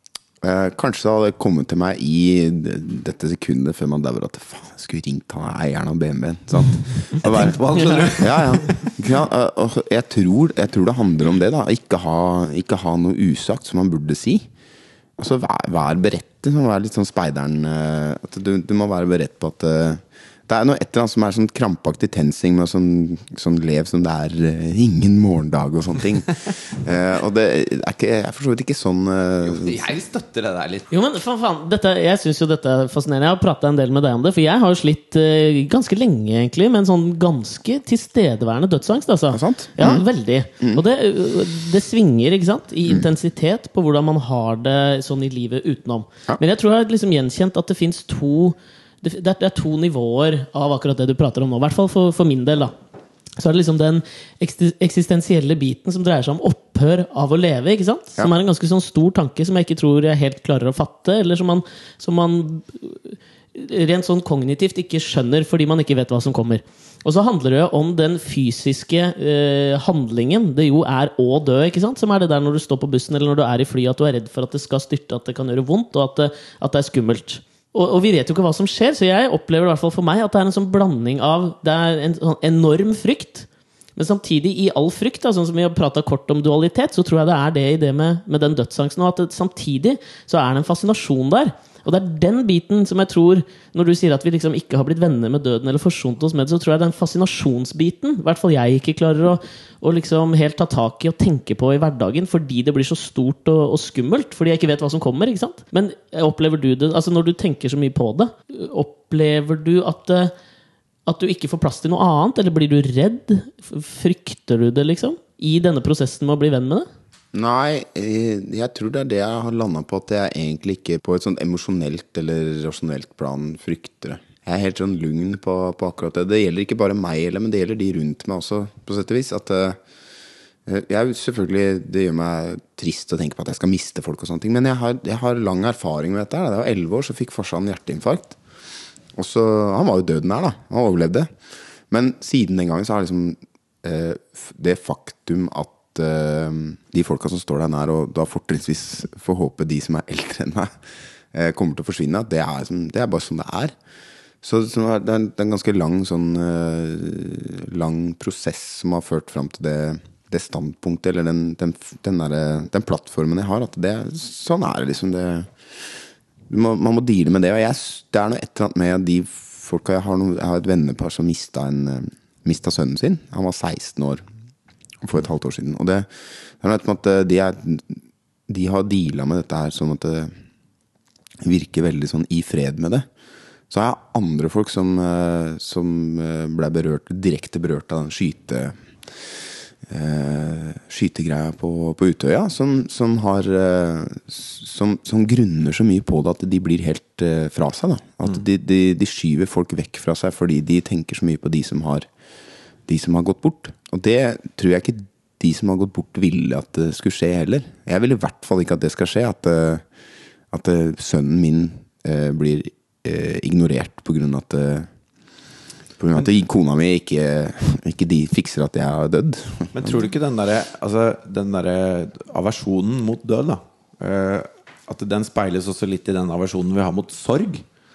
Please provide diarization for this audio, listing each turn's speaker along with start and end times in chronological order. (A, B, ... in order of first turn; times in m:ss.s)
0:00.4-0:14.5 A
0:07.2-0:08.9 B
0:15.2-0:29.9 A
0:29.4-0:30.9 B
0:30.9-0:52.7 C
0:39.3-0:40.1 A
0:53.4-1:50.3 C
1:51.1-1:56.9 C
1:57.3-2:09.8 A
2:10.7-2:18.4 A
2:19.2-2:21.3 A
2:21.9-2:30.7 A
2:31.3-2:33.7 A
2:34.4-2:54.2 A
2:55.0-2:56.1 A
2:56.6-3:00.3 A
3:01.4-3:03.1 A
3:03.7-3:22.1 A
3:22.9-3:29.8 A
3:30.5-3:34.9 A
3:36.0-3:40.1 A
3:39.7-3:47.6 B